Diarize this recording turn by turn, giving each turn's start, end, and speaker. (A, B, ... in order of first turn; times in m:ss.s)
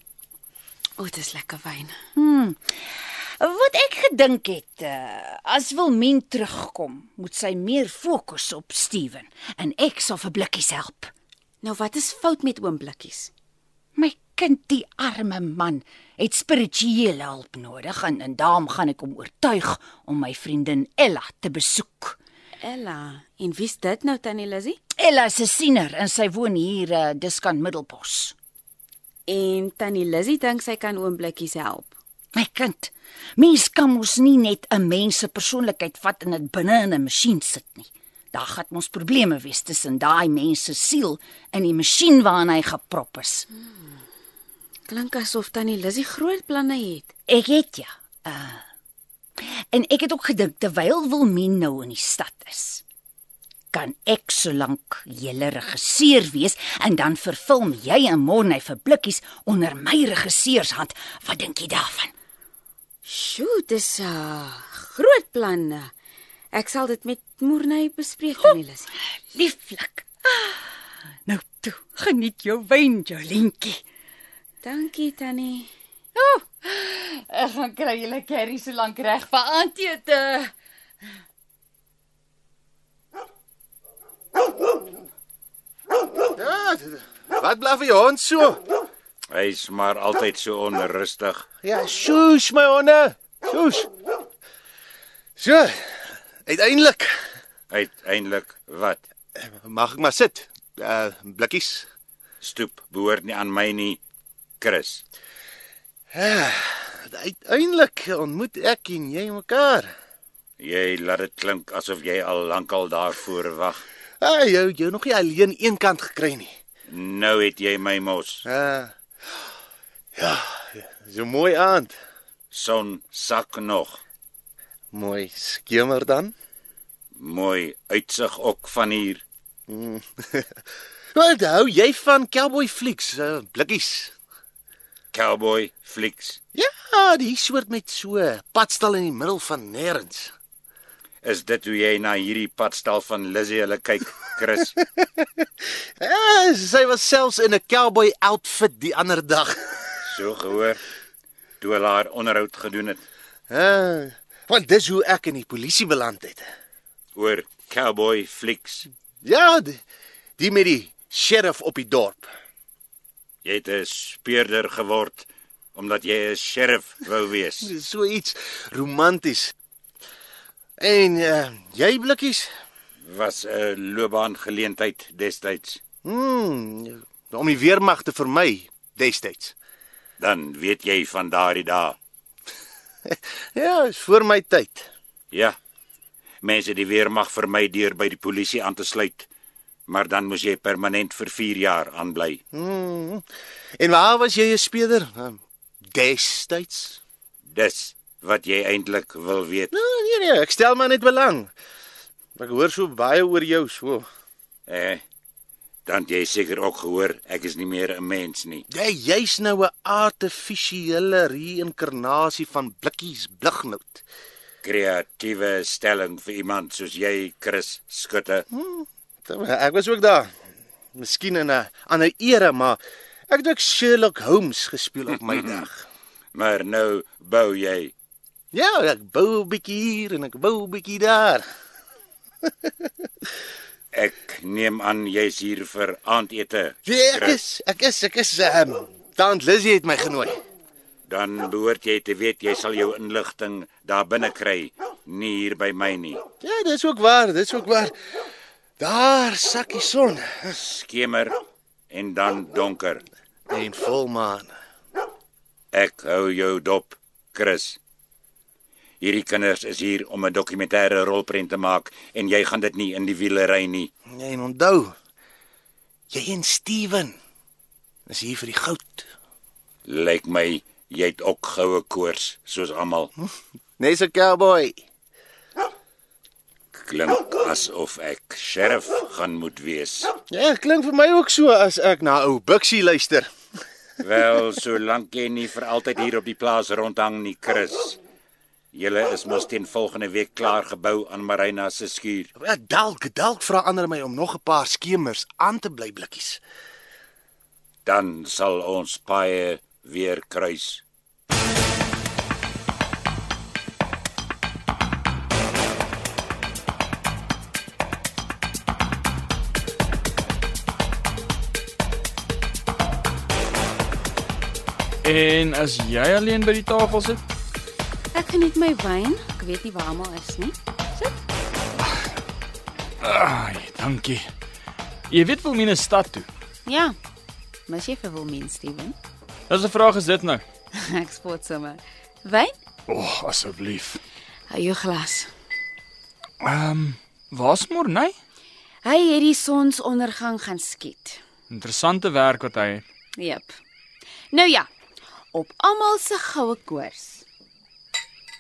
0:01.0-0:02.0 A
0:02.2-0:11.1 B
0:11.6-0:13.3 A
0:14.0-0:22.2 B
0:22.6-0:24.8 A
0:25.0-0:28.3 B
0:29.3-0:32.0 A
0:32.4-0:43.5 B
0:44.9-0:47.1 A
0:47.3-0:48.6 B
0:49.4-0:52.8 B
0:53.7-1:02.1 B
1:03.0-1:05.9 A
1:06.5-1:08.9 A
1:09.3-1:10.7 B
1:11.3-1:13.8 B
1:14.6-1:15.7 A
1:16.2-1:20.5 B
1:26.4-1:28.6 C
1:29.3-1:31.5 D
1:31.6-1:33.9 C
1:35.4-1:35.7 C
1:36.5-1:37.1 C
1:37.7-1:39.0 D
1:39.4-1:41.9 C
1:42.4-1:44.0 D
1:44.6-1:45.0 D
1:46.1-1:49.9 C
1:50.6-1:53.8 D
1:54.2-1:56.5 C
1:56.9-1:58.4 D
1:58.4-1:58.9 C
2:00.2-2:02.0 C
2:02.5-2:04.0 D
2:04.9-2:06.3 C
2:07.2-2:09.2 D
2:09.7-2:10.5 C
2:11.1-2:14.1 C
2:15.1-2:16.4 D
2:16.6-2:20.3 C
2:21.2-2:24.8 D
2:26.0-2:29.6 C
2:30.1-2:30.8 D
2:31.6-2:33.0 D
2:33.5-2:36.5 C
2:37.2-2:38.9 D
2:39.2-2:39.8 C
2:40.4-2:42.3 C
2:43.4-2:47.7 D
2:47.6-2:49.5 C
2:50.8-2:52.5 C
2:53.0-2:55.8 D
2:56.0-2:59.6 C
3:00.2-3:02.0 D
3:03.1-3:04.9 C
3:06.4-3:09.3 D
3:09.9-3:12.4 D
3:12.5-3:13.2 C
3:13.8-3:15.4 C
3:15.9-3:17.0 C
3:17.5-3:19.7 D
3:19.7-3:21.5 C
3:22.4-3:24.1 C
3:24.7-3:25.0 D
3:25.9-3:28.7 D
3:28.7-3:34.0 C
3:34.6-3:38.5 D
3:38.5-3:40.3 C
3:41.0-3:45.8 C
3:45.3-3:45.6 D
3:46.3-3:47.9 D
3:48.5-3:51.4 C
3:53.9-3:57.4 D
3:56.9-4:00.4 C
4:01.1-4:06.2 D
4:06.4-4:07.9 C
4:08.8-4:10.6 C
4:10.6-4:11.4 D
4:11.9-4:13.0 D
4:13.5-4:14.5 C
4:15.7-4:17.8 D
4:19.0-4:23.9 D
4:24.1-4:24.9 C
4:26.1-4:27.2 C
4:28.1-4:29.1 C
4:29.9-4:33.1 D
4:33.8-4:34.8 C
4:36.7-4:40.2 D
4:40.3-4:43.3 C
4:44.0-4:48.0 D
4:48.7-4:52.3 D
4:52.4-4:56.4 C
4:57.8-5:00.8 D
5:15.0-5:17.2 E
5:18.1-5:21.1 A
5:21.8-5:22.1 E
5:23.0-5:24.3 E
5:25.1-5:26.3 E
5:26.6-5:27.0 A
5:27.7-5:29.0 A
5:29.5-5:30.4 E
5:30.8-5:32.5 A
5:32.9-5:34.0 E
5:34.5-5:35.3 A
5:36.4-5:38.2 E
5:38.8-5:41.2 A
5:41.5-5:42.8 E
5:43.2-5:43.6 A
5:44.3-5:44.7 A
5:45.3-5:47.2 A